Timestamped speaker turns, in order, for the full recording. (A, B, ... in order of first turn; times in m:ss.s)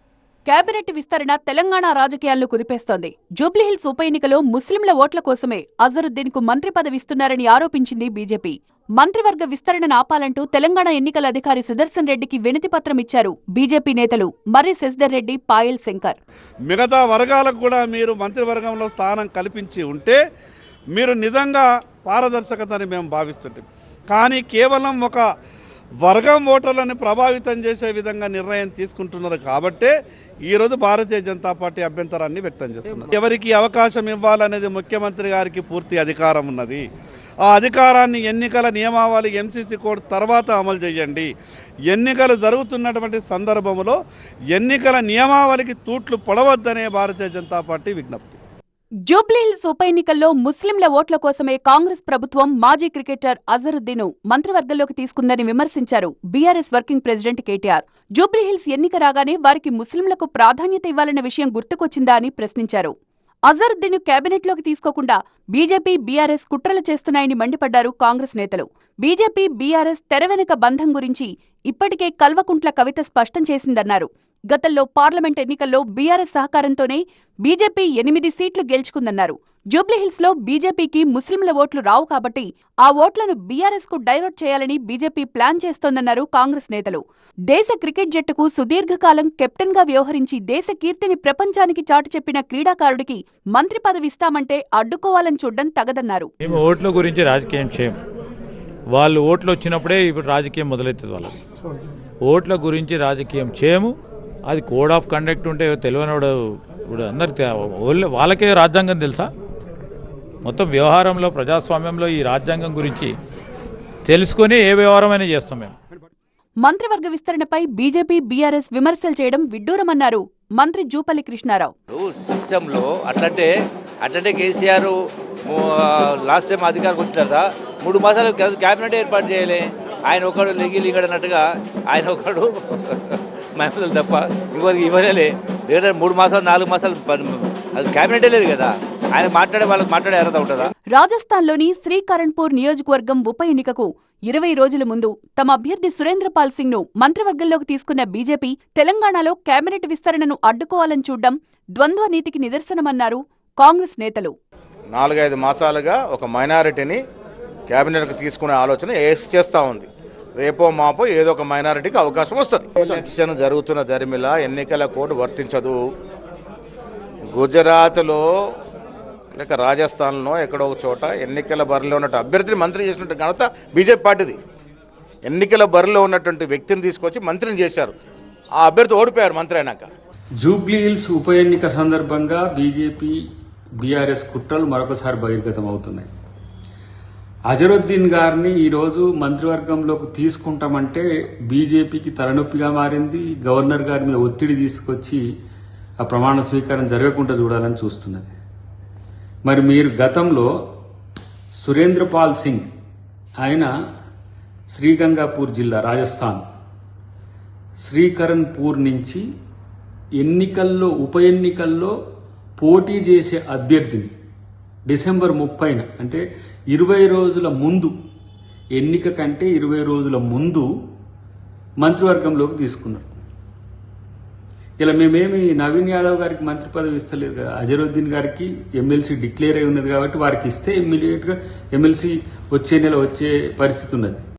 0:00.5-0:16.2 A
0:16.7-0:20.2 B
0:20.9-0:25.2 B
0:26.0-0:29.9 B
0:30.5-0:36.8 B
0:37.5-0:41.3 B
0:41.9-0:44.0 B
0:44.5-0:48.4 B
0:49.1-1:02.9 A
1:03.5-1:36.3 A
1:36.4-1:38.0 C
1:38.9-1:41.3 C
1:42.2-1:43.9 C
1:44.5-1:46.3 C
1:46.9-1:49.3 C
1:50.4-1:53.1 C
1:54.1-1:55.7 C
1:56.6-2:01.7 A
2:01.9-2:03.5 D
2:04.0-2:05.0 D
2:05.5-2:20.7 D
2:20.9-2:34.3 A
2:34.9-2:37.0 E
2:37.7-2:45.8 E
2:47.4-2:48.2 E
2:49.4-2:54.4 E
2:55.3-2:58.0 E
2:58.6-2:59.9 E
3:00.4-3:03.2 F
3:03.8-3:06.1 F
3:07.5-3:15.2 F
3:16.0-3:18.4 F
3:19.4-3:20.5 F
3:21.6-3:22.7 F
3:23.4-3:23.7 F
3:24.7-3:26.5 F
3:27.8-3:29.2 F
3:30.2-3:31.9 F
3:32.6-3:34.1 F
3:34.9-3:38.0 F
3:38.8-3:40.7 F
3:41.8-3:43.1 F
3:44.8-3:54.3 F